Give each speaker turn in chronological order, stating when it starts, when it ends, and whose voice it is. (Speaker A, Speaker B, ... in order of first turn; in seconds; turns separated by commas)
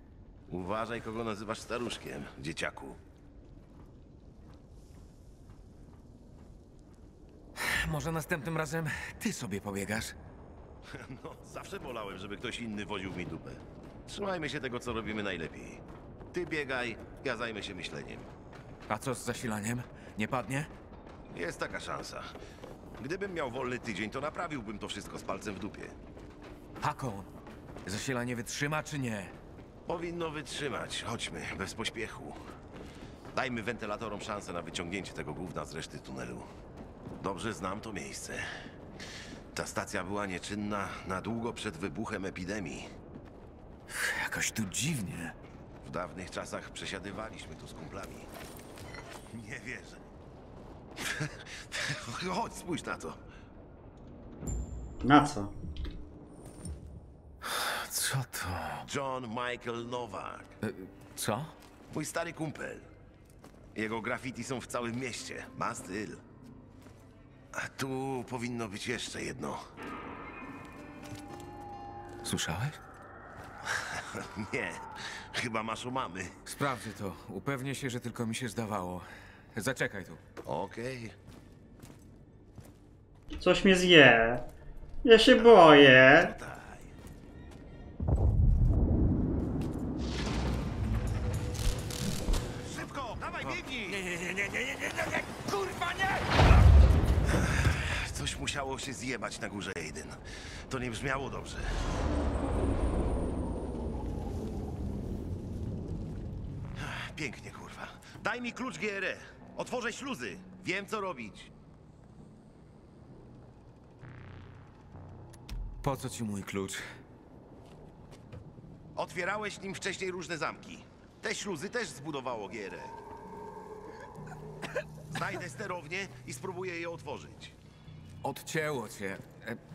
Speaker A: 0.5-3.0, Speaker B: 7.6-10.2, Speaker A: 10.9-18.3, Speaker B: 18.9-20.7, Speaker A: 21.3-22.3, Speaker A: 23.0-25.9, Speaker B: 26.8-27.3, Speaker B: 27.8-29.3, Speaker A: 29.9-32.4, Speaker A: 33.3-36.5, Speaker A: 37.2-38.5, Speaker A: 39.5-42.9, Speaker B: 43.9-45.3, Speaker A: 45.8-48.3, Speaker A: 49.3-50.0, Speaker A: 51.0-53.2, Speaker C: 55.0-55.5, Speaker B: 57.4-58.9, Speaker A: 58.9-60.5, Speaker B: 60.6-61.5, Speaker A: 61.9-62.9, Speaker A: 63.7-66.2, Speaker A: 67.5-69.6, Speaker B: 72.2-72.8, Speaker A: 73.7-76.3, Speaker B: 76.5-80.2, Speaker A: 80.5-81.1, Speaker C: 83.4-84.5, Speaker C: 85.0-86.3, Speaker A: 85.5-86.9, Speaker A: 92.6-94.0, Speaker B: 93.9-96.2, Speaker A: 97.3-101.7, Speaker A: 106.8-111.5, Speaker B: 115.8-116.8, Speaker A: 119.0-123.0, Speaker A: 125.1-127.5, Speaker B: 128.2-129.6